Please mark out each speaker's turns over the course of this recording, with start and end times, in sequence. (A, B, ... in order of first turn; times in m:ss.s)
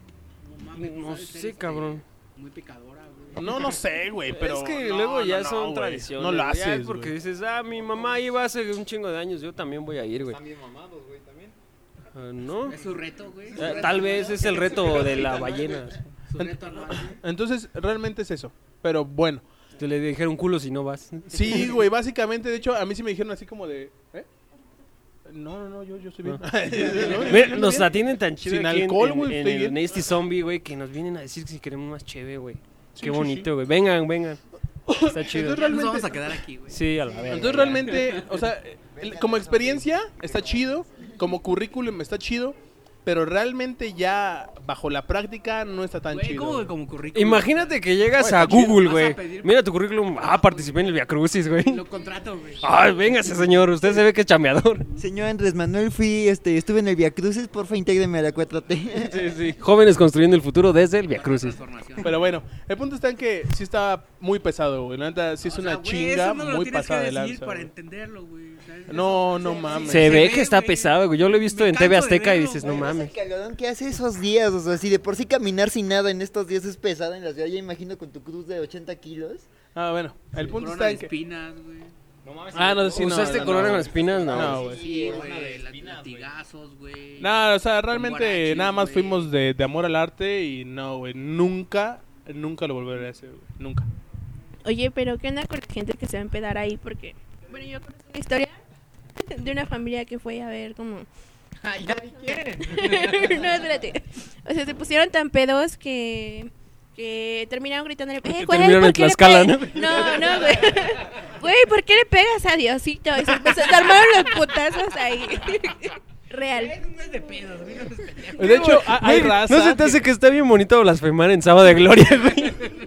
0:00.4-0:03.5 A
0:00.8-0:02.0 B
0:03.4-0:07.1 C
0:04.3-0:10.4 B
0:10.2-0:11.6 D
0:12.2-0:12.8 B
0:12.6-0:14.8 A
0:13.6-0:16.0 B
0:16.3-0:17.2 A
0:16.4-0:19.4 C
0:19.8-0:21.8 B
0:21.3-0:24.3 C
0:25.3-0:27.9 C
0:26.2-0:34.4 B
0:28.4-0:29.8 C
0:33.0-0:33.5 C
0:34.9-0:36.1 C
0:35.0-0:35.8 B
0:35.3-0:36.8 A
0:36.7-0:38.0 B
0:37.3-0:46.7 C
0:37.9-0:38.2 A
0:39.0-0:39.8 E
0:46.1-0:49.5 A
0:47.1-0:51.8 B
0:51.7-0:52.6 A
0:52.6-0:54.9 B
0:55.0-0:59.3 E
0:59.1-1:01.6 B
1:01.1-1:02.1 A
1:02.0-1:07.7 C
1:05.5-1:12.7 A
1:08.9-1:10.2 C
1:09.4-1:10.0 E
1:09.9-1:13.2 B
1:12.6-1:19.5 E
1:19.7-1:21.1 C
1:20.4-1:21.9 A
1:22.2-1:26.3 D
1:22.6-1:24.8 C
1:22.8-1:24.8 B
1:24.6-1:27.3 A
1:27.2-1:33.9 C
1:27.9-1:29.3 A
1:34.6-1:38.6 F
1:39.3-1:41.1 F
1:41.6-1:43.4 A
1:42.6-1:56.8 F
1:48.2-1:50.6 B
1:56.5-1:58.8 A
1:58.4-2:00.0 C
1:58.4-2:02.8 B